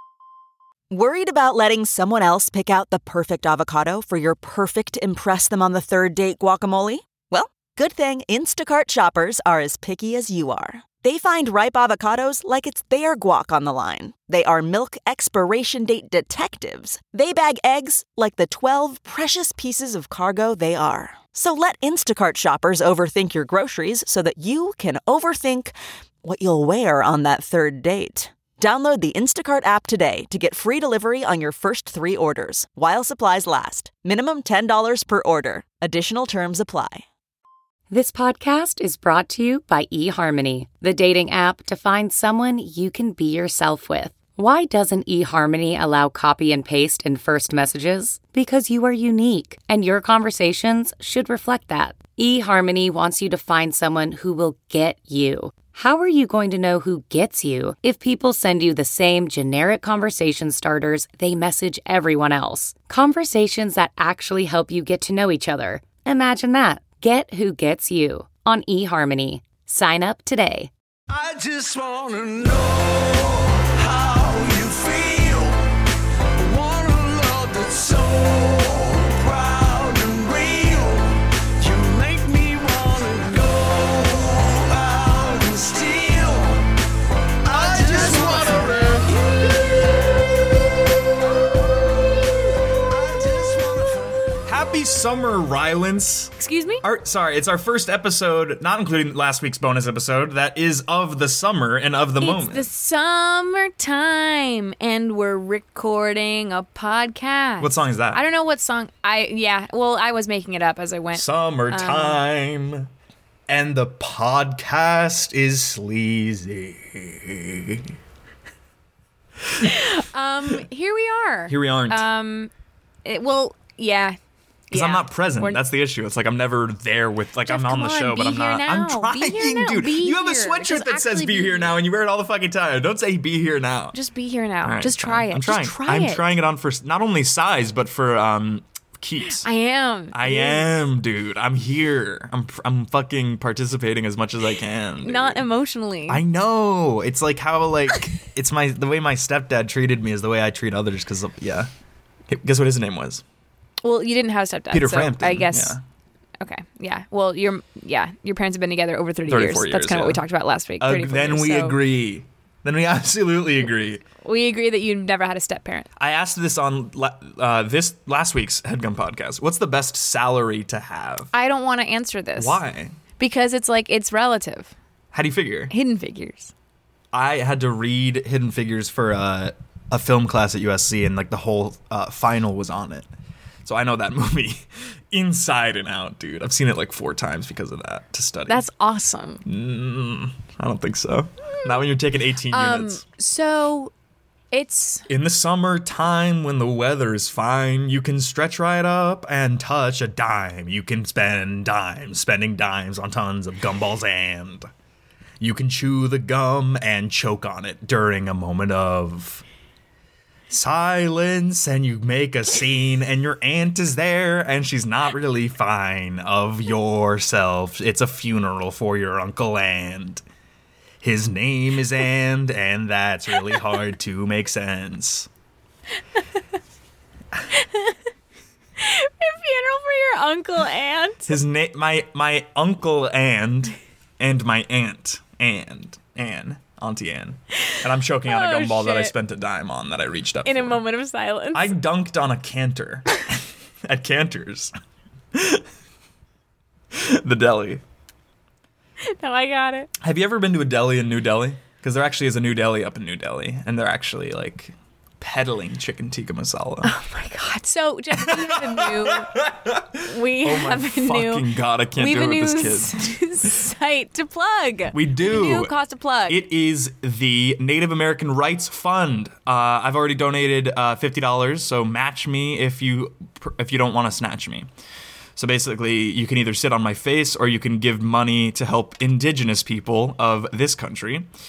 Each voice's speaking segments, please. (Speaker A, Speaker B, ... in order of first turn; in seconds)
Speaker A: 0.9-37.0
Speaker B: 37.9-70.7
Speaker C: 71.1-75.6, 76.4-86.6, 87.5-90.1, 92.9-94.1
Speaker D: 87.5-89.1, 94.5-102.7, 107.6-108.2, 111.1-112.9, 113.5-117.9, 121.5-122.0, 124.7-134.0, 134.6-139.5, 140.1-145.4, 146.1-151.7, 152.3-153.2, 154.7-155.8, 159.3-160.2, 160.8-164.0, 166.0-171.3, 172.4-172.9, 175.1-175.7, 177.1-183.1, 183.7-188.6, 189.4-193.0, 195.1-204.7, 205.4-209.4, 210.5-220.2, 221.0-225.3, 231.3-240.8, 241.5-244.7, 245.3-245.6, 246.9-247.8, 250.0-256.9, 258.1-263.1, 264.9-265.7, 266.3-274.7, 275.4-281.3
Speaker E: 96.4-96.8, 102.2-112.2, 119.6-122.5, 123.0-124.2, 124.7-125.6, 127.5-131.8, 133.9-136.3, 139.4-140.7, 145.0-146.2, 153.8-155.8, 156.4-161.8, 164.2-165.9, 171.3-172.6, 173.2-174.7, 175.7-176.5, 188.5-189.4, 192.5-193.9, 194.5-195.1, 227.6-227.9, 228.8-231.3, 238.3-239.1, 240.4-241.7, 249.2-249.9, 256.8-259.3, 260.0-261.4, 262.0-266.4